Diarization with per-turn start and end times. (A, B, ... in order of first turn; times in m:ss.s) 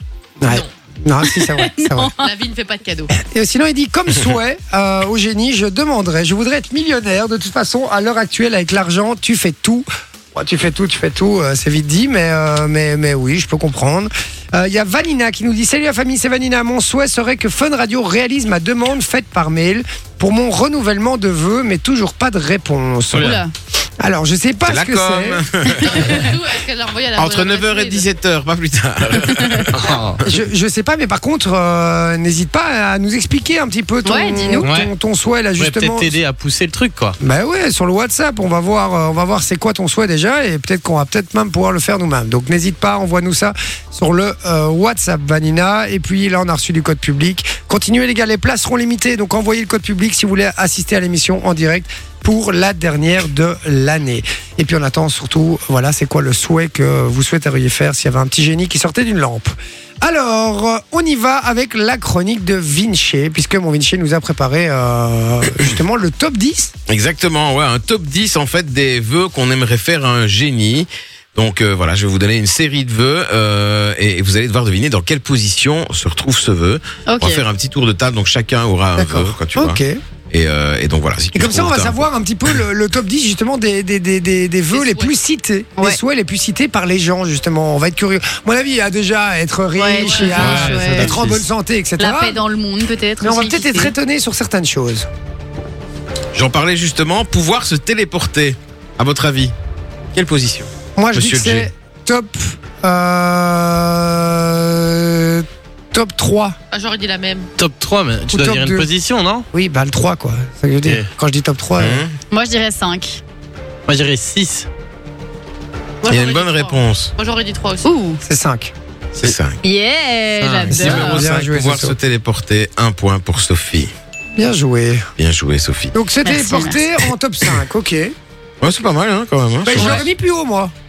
0:00.4-0:02.1 A
0:00.4-0:00.7 B
0:01.2-0:02.2 C
0:02.2-0:03.2 B
0:03.1-0:23.4 A
0:23.1-0:23.4 D
0:23.2-0:23.5 C
0:24.0-0:25.5 A
0:24.6-0:26.2 E
0:25.8-0:28.1 B
0:27.2-0:30.0 E
0:29.7-0:30.2 D
0:30.2-0:36.2 A
0:34.0-0:34.7 C
0:34.6-0:34.9 D
0:35.6-0:37.2 D
0:37.2-1:06.7 A
1:06.9-1:19.8 E
1:17.1-1:17.4 C
1:19.0-1:20.0 A
1:20.3-1:22.0 E
1:21.3-1:32.4 A
1:24.7-1:25.1 B
1:29.8-1:31.2 C
1:30.0-1:30.6 B
1:30.4-1:31.4 D
1:32.0-1:33.9 C
1:33.2-1:35.1 A
1:36.3-1:39.5 E
1:40.1-1:41.7 E
1:41.0-1:46.6 A
1:46.7-1:47.5 B
1:47.6-1:49.4 D
1:48.3-1:48.9 A
1:49.5-1:52.0 A
1:51.8-1:52.1 E
1:52.3-1:53.2 C
1:53.9-1:54.7 D
1:56.0-1:57.9 B
1:56.0-1:57.1 E
1:57.8-1:58.2 C
1:58.2-1:58.7 A
1:59.1-1:59.6 E
1:59.6-2:01.2 C
2:00.4-2:01.0 D
2:00.7-2:02.0 A
2:00.7-2:03.9 E
2:04.4-2:05.1 A
2:05.2-2:05.9 E
2:05.9-2:08.1 A
2:06.2-2:06.8 C
2:08.6-2:10.1 E
2:09.6-2:10.7 A